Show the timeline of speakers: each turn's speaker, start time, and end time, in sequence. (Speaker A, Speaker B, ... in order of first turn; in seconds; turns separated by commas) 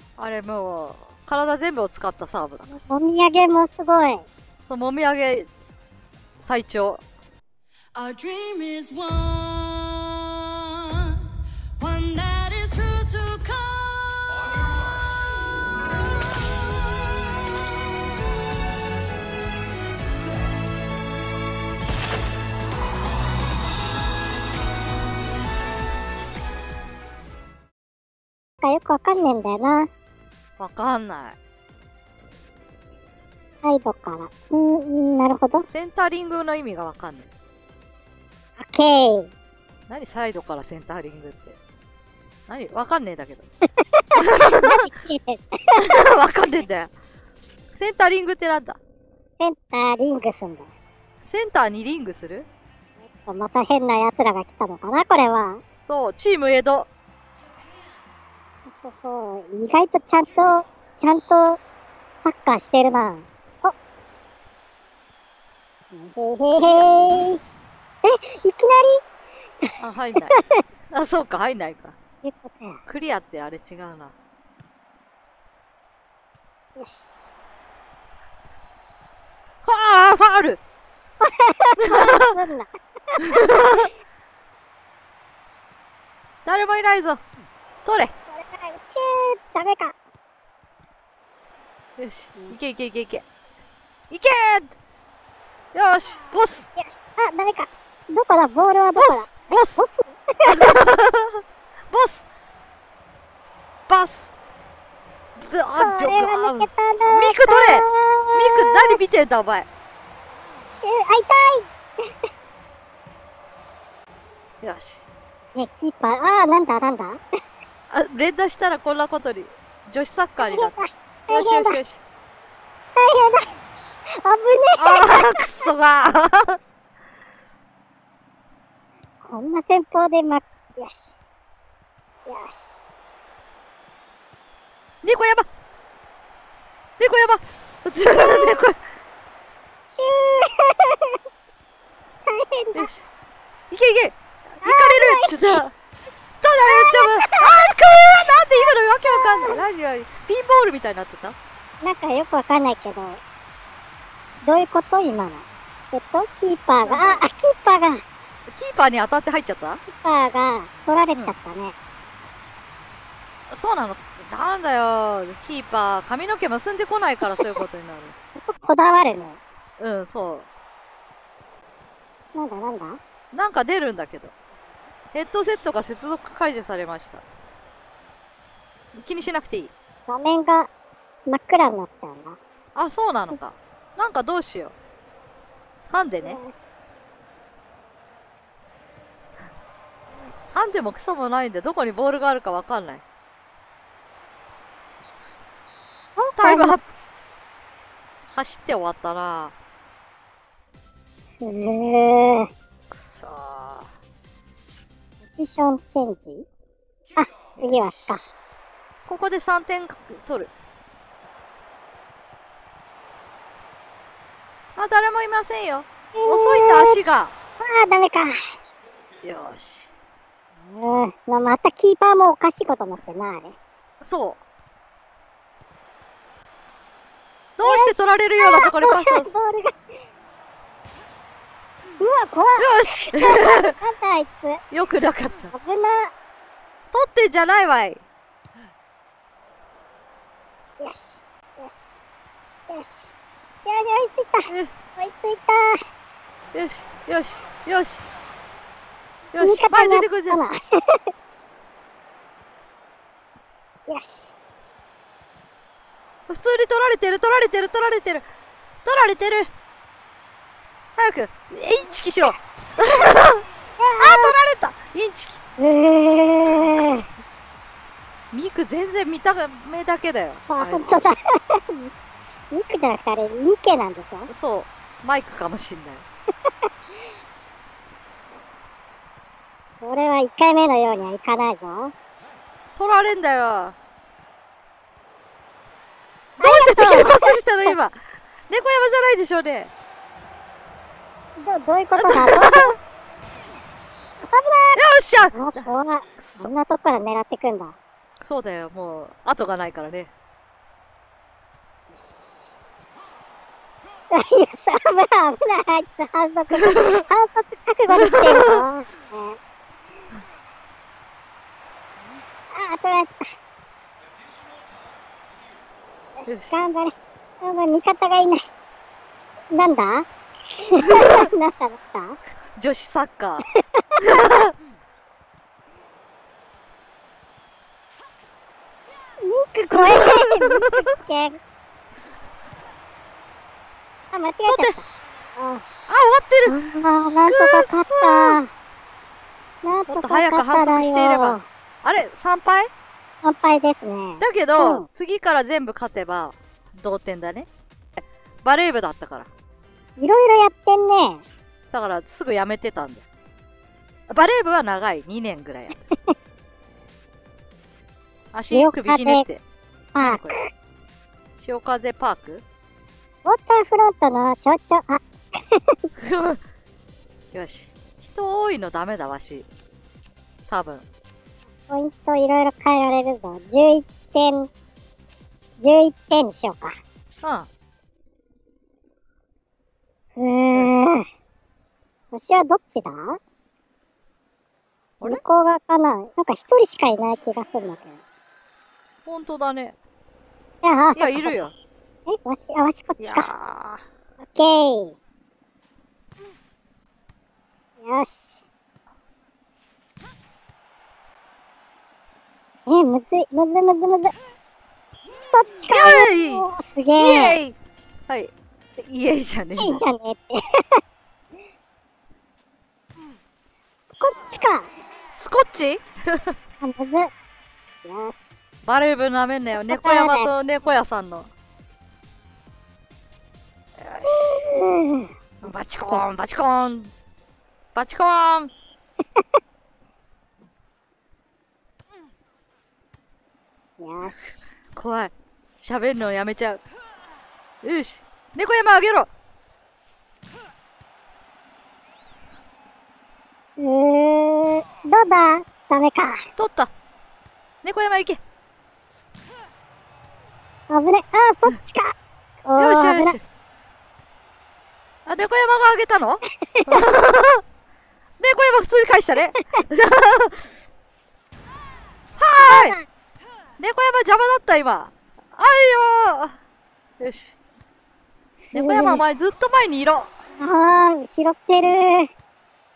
Speaker A: 0.2-2.7, Speaker B: 2.7-4.2, Speaker A: 4.7-5.5, Speaker A: 6.4-7.0, Speaker C: 8.0-11.2, Speaker C: 11.8-14.5, Speaker C: 16.5-17.2, Speaker B: 28.6-29.9, Speaker A: 30.6-31.4, Speaker B: 33.6-35.7, Speaker A: 35.7-37.3, Speaker B: 38.6-39.3, Speaker A: 39.9-41.6, Speaker A: 42.5-43.5, Speaker B: 43.8-45.9, Speaker A: 44.2-44.8, Speaker A: 45.8-46.9, Speaker A: 47.8-48.8, Speaker B: 49.4-50.7, Speaker A: 51.2-52.5, Speaker B: 53.0-55.6, Speaker A: 55.9-56.9, Speaker B: 58.7-61.6, Speaker B: 62.2-63.7, Speaker B: 65.9-67.4, Speaker B: 68.0-69.0, Speaker A: 69.8-70.3, Speaker B: 70.3-70.6, Speaker A: 70.9-72.0, Speaker B: 72.2-72.8, Speaker A: 72.9-74.1, Speaker B: 76.8-77.4, Speaker A: 79.6-80.6, Speaker B: 81.2-83.5, Speaker A: 81.8-82.3, Speaker A: 83.2-83.9, Speaker A: 86.5-87.2, Speaker A: 87.8-88.1, Speaker B: 88.3-90.0, Speaker A: 92.0-93.2, Speaker A: 94.1-94.7, Speaker A: 95.7-96.7, Speaker B: 96.8-100.8, Speaker A: 99.0-99.9, Speaker A: 100.5-102.3, Speaker A: 103.9-104.3, Speaker A: 105.4-109.7, Speaker B: 105.8-109.0, Speaker B: 110.6-112.1, Speaker A: 114.6-115.1, Speaker B: 115.5-117.2, Speaker A: 117.9-120.8, Speaker B: 120.4-121.8, Speaker A: 121.3-122.0, Speaker B: 123.0-123.5, Speaker B: 124.2-125.5, Speaker A: 124.8-126.6, Speaker B: 129.2-131.2, Speaker B: 132.3-132.9, Speaker A: 135.0-135.5, Speaker A: 137.0-138.8, Speaker B: 138.2-138.6, Speaker B: 139.8-141.2, Speaker B: 142.3-142.9, Speaker A: 142.8-143.1, Speaker A: 143.7-145.7, Speaker B: 144.6-145.3, Speaker A: 146.4-151.4, Speaker B: 146.7-147.7, Speaker B: 149.1-149.6, Speaker B: 151.8-153.2, Speaker B: 154.4-158.0, Speaker A: 156.8-157.2, Speaker A: 158.5-159.8, Speaker B: 159.9-161.8, Speaker A: 163.5-168.2, Speaker B: 168.4-169.4, Speaker A: 169.8-170.5, Speaker B: 172.3-173.0, Speaker A: 173.3-174.3, Speaker A: 175.1-177.2, Speaker A: 178.9-179.7, Speaker B: 180.1-180.7, Speaker B: 181.3-182.4, Speaker A: 182.8-184.7, Speaker A: 185.9-186.4, Speaker B: 186.2-186.9, Speaker B: 190.2-190.8, Speaker A: 190.6-193.0, Speaker B: 196.2-196.8, Speaker A: 196.4-196.8, Speaker A: 198.3-199.5, Speaker B: 201.4-202.5, Speaker A: 202.9-203.9, Speaker B: 205.3-206.5, Speaker B: 207.2-208.2, Speaker A: 207.6-208.0, Speaker A: 209.1-210.5, Speaker A: 214.8-217.3, Speaker B: 216.1-217.0, Speaker B: 217.6-218.3, Speaker A: 219.2-219.9, Speaker B: 220.6-223.6, Speaker A: 224.0-224.4, Speaker A: 227.6-229.3, Speaker B: 227.6-229.8, Speaker B: 232.0-234.6, Speaker A: 232.6-233.7, Speaker A: 234.7-235.5, Speaker B: 235.5-236.1, Speaker A: 236.9-238.0, Speaker B: 240.8-242.0, Speaker B: 242.7-245.8, Speaker A: 246.5-248.1, Speaker A: 249.3-250.4, Speaker B: 249.4-251.0, Speaker B: 253.9-254.3, Speaker A: 256.3-258.2, Speaker A: 258.9-259.5, Speaker A: 261.0-263.4, Speaker B: 263.8-264.4, Speaker A: 264.0-265.4, Speaker B: 265.6-267.1, Speaker A: 268.3-270.9, Speaker B: 270.5-271.9, Speaker B: 272.5-274.3, Speaker A: 274.3-276.1, Speaker B: 279.8-281.9, Speaker A: 282.8-283.8, Speaker B: 286.4-287.8, Speaker A: 286.4-289.7, Speaker B: 291.4-292.8, Speaker A: 292.0-292.7, Speaker B: 294.2-294.8, Speaker A: 294.8-295.7, Speaker B: 295.3-297.8, Speaker A: 296.2-296.5, Speaker A: 298.2-300.1, Speaker B: 301.9-302.6, Speaker B: 304.1-309.4, Speaker A: 308.0-308.6, Speaker B: 312.5-313.3, Speaker B: 316.2-318.4, Speaker A: 316.3-316.7, Speaker B: 319.5-322.2, Speaker A: 320.9-321.2, Speaker A: 322.6-323.4, Speaker B: 323.8-324.0, Speaker A: 324.0-324.5, Speaker B: 329.2-331.4, Speaker A: 329.8-330.8, Speaker B: 334.1-334.9, Speaker A: 334.5-334.8, Speaker B: 335.4-335.6, Speaker A: 335.9-336.6, Speaker B: 336.5-338.5, Speaker A: 337.3-338.4, Speaker B: 339.6-341.4, Speaker A: 339.9-342.7, Speaker B: 343.2-344.9, Speaker A: 344.2-347.5, Speaker A: 348.4-349.3, Speaker B: 350.0-351.2, Speaker A: 351.7-353.0, Speaker A: 354.1-355.8, Speaker B: 358.2-359.3, Speaker A: 358.3-359.4, Speaker B: 359.9-360.5, Speaker A: 360.0-360.4, Speaker A: 361.4-362.4, Speaker B: 363.2-365.8, Speaker A: 366.0-366.4, Speaker A: 367.3-369.5, Speaker A: 370.5-370.9, Speaker B: 371.7-374.5, Speaker B: 375.6-376.7, Speaker A: 377.2-377.5, Speaker B: 380.2-381.1, Speaker A: 380.5-380.9, Speaker B: 382.1-383.2, Speaker B: 385.0-388.0, Speaker A: 389.1-389.8, Speaker B: 390.6-391.5, Speaker A: 391.0-391.5, Speaker B: 392.1-393.3, Speaker A: 393.0-393.8, Speaker B: 394.2-395.0, Speaker B: 397.8-398.4, Speaker B: 402.7-404.1, Speaker B: 405.3-407.4, Speaker A: 405.7-406.5, Speaker A: 407.0-407.6, Speaker A: 408.1-409.8, Speaker B: 409.6-410.8, Speaker B: 414.0-414.7, Speaker A: 415.2-416.4, Speaker B: 416.6-417.1, Speaker B: 417.9-418.4, Speaker A: 418.7-421.3, Speaker B: 419.5-420.3, Speaker A: 423.8-424.5, Speaker B: 424.1-426.1, Speaker A: 425.4-426.9, Speaker A: 427.8-428.5, Speaker B: 433.8-434.5, Speaker A: 434.8-436.6, Speaker A: 437.6-439.1, Speaker B: 443.6-446.2, Speaker A: 446.4-446.7, Speaker A: 447.6-448.2, Speaker B: 450.7-451.9, Speaker B: 452.5-453.2, Speaker A: 452.6-453.2, Speaker A: 455.1-457.4, Speaker B: 456.4-456.9, Speaker A: 458.2-460.4, Speaker A: 462.2-462.8, Speaker B: 462.4-462.9, Speaker A: 463.6-466.4, Speaker A: 467.0-467.4, Speaker B: 468.5-469.0, Speaker A: 468.5-470.1, Speaker B: 470.4-472.1